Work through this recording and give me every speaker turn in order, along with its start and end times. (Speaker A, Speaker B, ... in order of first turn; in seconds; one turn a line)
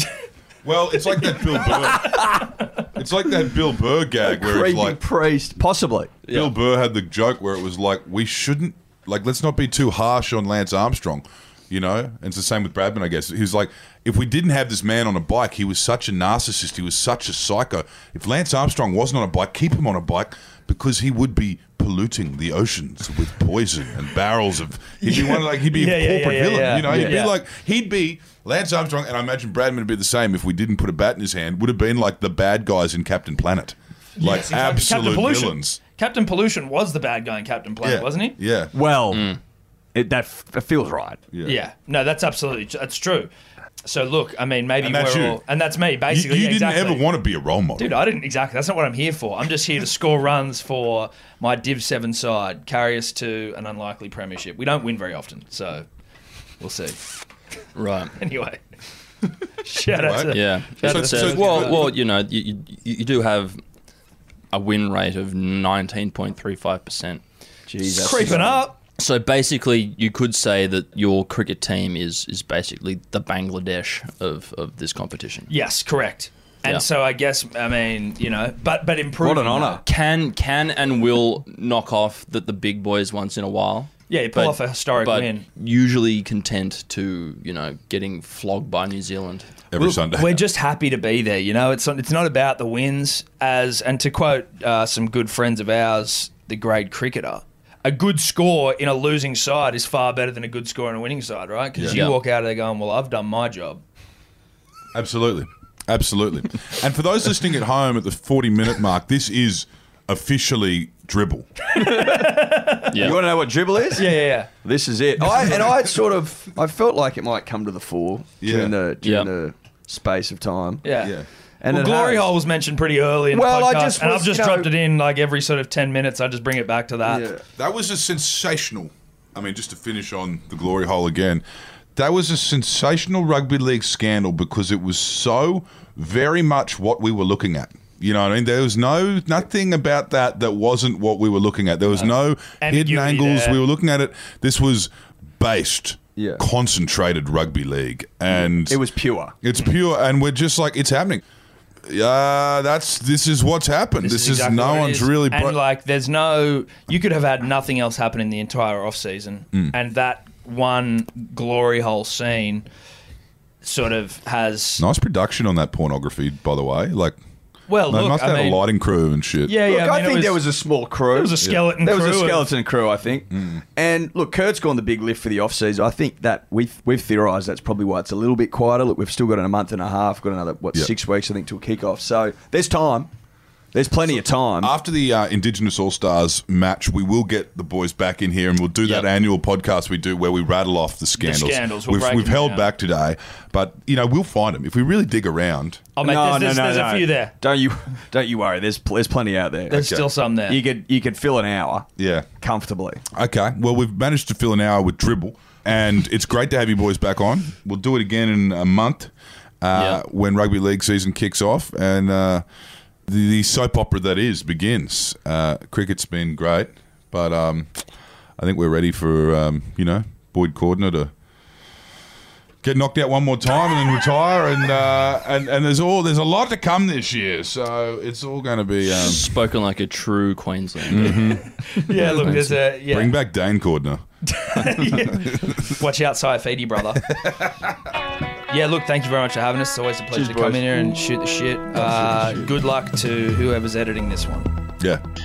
Speaker A: 0.6-5.0
Speaker B: 1.3-2.3
Speaker C: 4.2-6.2
Speaker D: 6.3-6.5
Speaker A: 6.3-35.8
Speaker B: 25.0-27.3
Speaker C: 26.8-27.2
Speaker B: 34.2-38.4
Speaker A: 37.8-38.7
Speaker C: 38.7-39.4
Speaker D: 39.1-39.4
Speaker C: 39.9-41.2
Speaker A: 41.3-41.6
Speaker B: 41.4-43.3
Speaker B: 43.8-47.0
Speaker A: 44.8-45.4
Speaker A: 46.1-48.0
Speaker B: 47.8-55.9
Speaker B: 56.6-57.0
Speaker D: 57.7-58.1
Speaker B: 58.1-58.6
Speaker B: 59.5-61.9
Speaker A: 59.9-61.9
Speaker D: 60.3-63.6
Speaker D: 64.5-67.2
Speaker C: 67.7-68.6
Speaker B: 67.9-68.8
Speaker D: 68.0-68.4
Speaker D: 69.0-75.5
Speaker B: 75.5-79.8
Speaker C: 79.2-79.8
Speaker D: 79.8-89.6
Speaker B: 84.1-85.4
Speaker A: 89.7-90.4
Speaker B: 89.8-103.8
Speaker A: 101.7-102.0
Speaker D: 101.9-102.2
Speaker A: 104.9-111.5
Speaker B: 111.7-113.1
Speaker C: 111.7-112.4
Speaker D: 112.9-113.2
Speaker C: 112.9-120.9
Speaker B: 113.9-114.5
Speaker A: 115.4-115.7
Speaker A: 118.4-118.7
Speaker D: 119.0-119.3
Speaker B: 120.8-121.1
Speaker A: 121.0-121.3
Speaker C: 121.6-122.3
Speaker B: 121.7-127.3
Speaker C: 123.3-124.7
Speaker C: 127.0-127.4
Speaker A: 127.5-131.4
Speaker A: 131.9-148.8
Speaker B: 141.9-143.6
Speaker C: 146.2-146.4
Speaker C: 148.3-149.4
Speaker A: 149.4-151.2
Speaker A: 151.9-155.6
Speaker B: 154.0-162.6
Speaker B: 163.6-164.8
Speaker A: 164.8-167.2
Speaker B: 167.7-168.6
Speaker A: 167.9-169.6
Speaker B: 169.4-170.4
Speaker C: 169.6-183.1
Speaker B: 171.1-172.5
Speaker A: 171.4-171.7
Speaker A: 173.3-173.6
Speaker C: 183.7-184.7
Speaker A: 184.6-195.9
Speaker D: 188.8-189.1
Speaker B: 191.2-192.7
Speaker B: 195.9-197.3
Speaker C: 196.0-201.9
Speaker B: 199.7-200.6
Speaker A: 199.7-200.1
Speaker A: 202.0-202.3
Speaker C: 202.4-203.0
Speaker A: 203.1-212.4
Speaker D: 209.7-210.0
Speaker A: 213.1-217.8
Speaker A: 218.4-221.1
Speaker A: 222.6-229.3
Speaker D: 228.8-231.5
Speaker A: 230.9-234.0
Speaker B: 231.0-233.2
Speaker D: 232.0-232.3
Speaker B: 234.3-237.1
Speaker A: 234.6-235.6
Speaker A: 237.1-237.8
Speaker B: 238.5-244.5
Speaker C: 240.1-240.7
Speaker C: 241.8-242.4